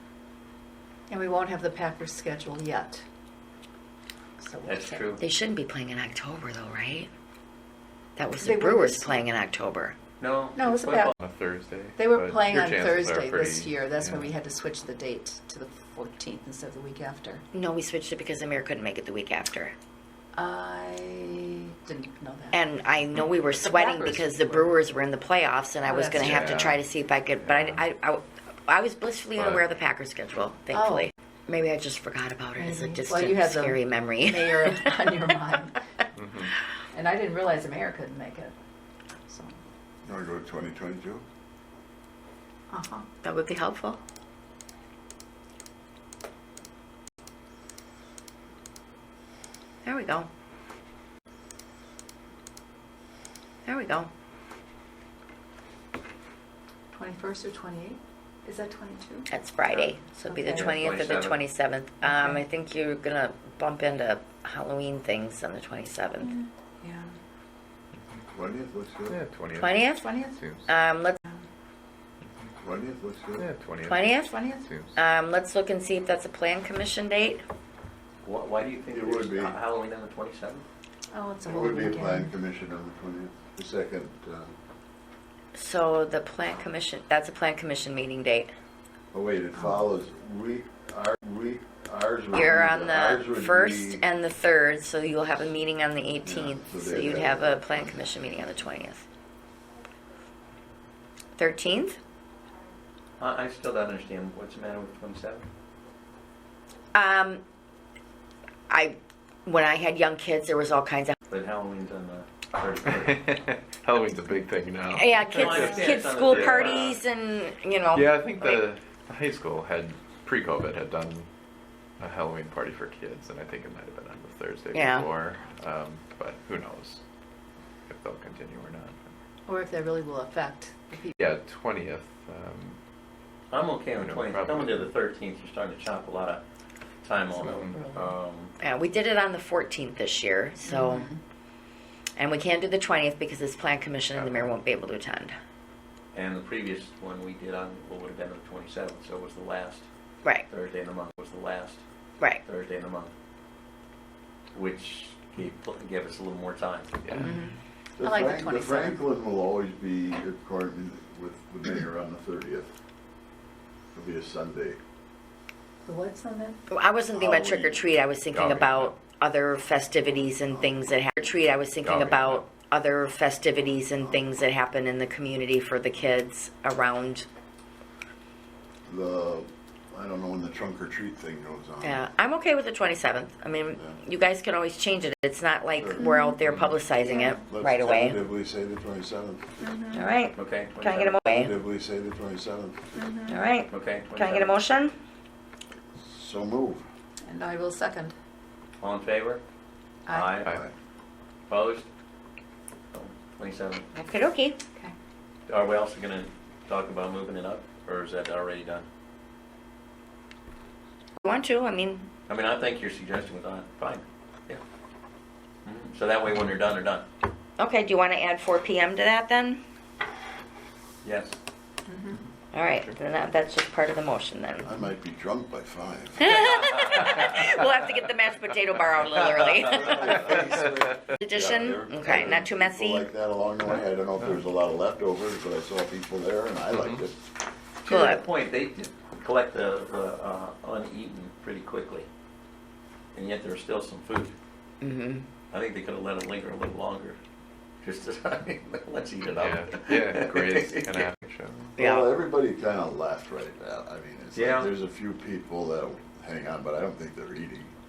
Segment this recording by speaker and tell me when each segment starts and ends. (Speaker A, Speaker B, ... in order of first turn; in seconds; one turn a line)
Speaker A: 1.1-3.0
Speaker A: 4.4-5.2
Speaker B: 4.6-5.2
Speaker C: 5.2-7.1
Speaker C: 8.2-10.0
Speaker A: 8.4-9.2
Speaker B: 10.2-11.1
Speaker A: 10.5-11.1
Speaker D: 11.2-14.3
Speaker A: 12.0-17.4
Speaker C: 17.5-19.7
Speaker A: 20.3-22.6
Speaker C: 22.5-35.0
Speaker A: 23.5-24.7
Speaker A: 25.8-26.5
Speaker D: 26.1-26.8
Speaker D: 27.4-27.8
Speaker D: 29.4-29.6
Speaker A: 30.7-31.1
Speaker A: 32.5-35.8
Speaker D: 36.1-36.5
Speaker A: 36.9-38.5
Speaker A: 39.2-39.5
Speaker E: 40.0-41.2
Speaker A: 42.7-43.1
Speaker C: 43.2-44.0
Speaker C: 49.8-50.3
Speaker C: 53.7-54.1
Speaker A: 56.9-59.3
Speaker C: 59.3-66.4
Speaker A: 59.8-60.7
Speaker B: 60.5-61.5
Speaker A: 62.0-62.4
Speaker A: 66.2-67.1
Speaker E: 68.3-69.2
Speaker D: 69.1-70.7
Speaker C: 69.6-70.1
Speaker A: 70.0-70.4
Speaker C: 70.7-71.2
Speaker E: 72.6-73.5
Speaker D: 73.4-75.0
Speaker C: 73.9-74.4
Speaker A: 74.3-74.7
Speaker C: 75.0-77.4
Speaker B: 78.2-80.6
Speaker E: 78.9-79.6
Speaker A: 81.1-82.3
Speaker E: 81.4-84.5
Speaker C: 85.5-88.5
Speaker E: 89.1-94.0
Speaker C: 92.3-99.0
Speaker E: 96.2-98.1
Speaker C: 101.4-102.0
Speaker B: 103.2-105.5
Speaker C: 106.9-107.4
Speaker C: 108.7-111.2
Speaker B: 111.3-113.3
Speaker D: 112.9-116.8
Speaker C: 114.9-118.6
Speaker B: 115.3-117.0
Speaker D: 117.9-121.3
Speaker D: 122.0-127.0
Speaker C: 124.7-125.1
Speaker D: 127.9-129.1
Speaker A: 129.5-131.1
Speaker D: 131.2-132.8
Speaker B: 133.5-136.4
Speaker D: 133.9-134.9
Speaker B: 137.0-138.5
Speaker A: 137.3-138.1
Speaker D: 137.4-137.8
Speaker C: 138.6-141.1
Speaker A: 140.7-141.2
Speaker C: 142.2-145.3
Speaker D: 144.1-144.5
Speaker B: 146.1-149.8
Speaker B: 150.5-151.8
Speaker B: 152.4-153.1
Speaker B: 154.5-157.0
Speaker D: 157.0-157.3
Speaker A: 157.2-159.0
Speaker C: 157.2-157.5
Speaker E: 158.0-162.7
Speaker E: 163.9-164.8
Speaker A: 165.8-166.6
Speaker C: 166.7-177.2
Speaker E: 167.1-167.9
Speaker D: 168.3-168.9
Speaker D: 171.8-172.4
Speaker E: 178.8-182.0
Speaker C: 181.8-188.2
Speaker E: 183.7-184.0
Speaker E: 185.8-186.1
Speaker A: 185.9-186.3
Speaker D: 186.4-186.8
Speaker A: 187.0-187.4
Speaker E: 187.4-189.6
Speaker A: 189.6-190.1
Speaker C: 189.9-191.5
Speaker B: 190.3-191.2
Speaker E: 191.2-192.9
Speaker A: 192.9-193.4
Speaker C: 193.3-194.9
Speaker B: 193.7-194.5
Speaker E: 196.0-196.8
Speaker A: 197.2-198.1
Speaker B: 198.8-199.4
Speaker A: 200.1-200.3
Speaker B: 200.1-200.5
Speaker E: 200.5-200.7
Speaker B: 201.5-201.9
Speaker B: 202.9-203.9
Speaker C: 203.9-204.6
Speaker B: 205.5-208.8
Speaker C: 211.2-212.1
Speaker B: 212.3-214.6
Speaker B: 215.6-217.1
Speaker C: 217.6-219.6
Speaker B: 221.0-221.4
Speaker A: 221.9-222.2
Speaker C: 222.5-224.8
Speaker E: 224.6-226.5
Speaker C: 226.2-233.1
Speaker E: 229.4-237.2
Speaker D: 236.8-237.0
Speaker B: 237.8-242.1
Speaker C: 237.9-238.2
Speaker B: 243.1-244.3
Speaker C: 244.8-245.2
Speaker B: 245.5-247.2
Speaker B: 247.8-251.1
Speaker D: 249.3-251.7
Speaker C: 251.8-252.1
Speaker E: 251.8-257.7
Speaker B: 254.3-254.7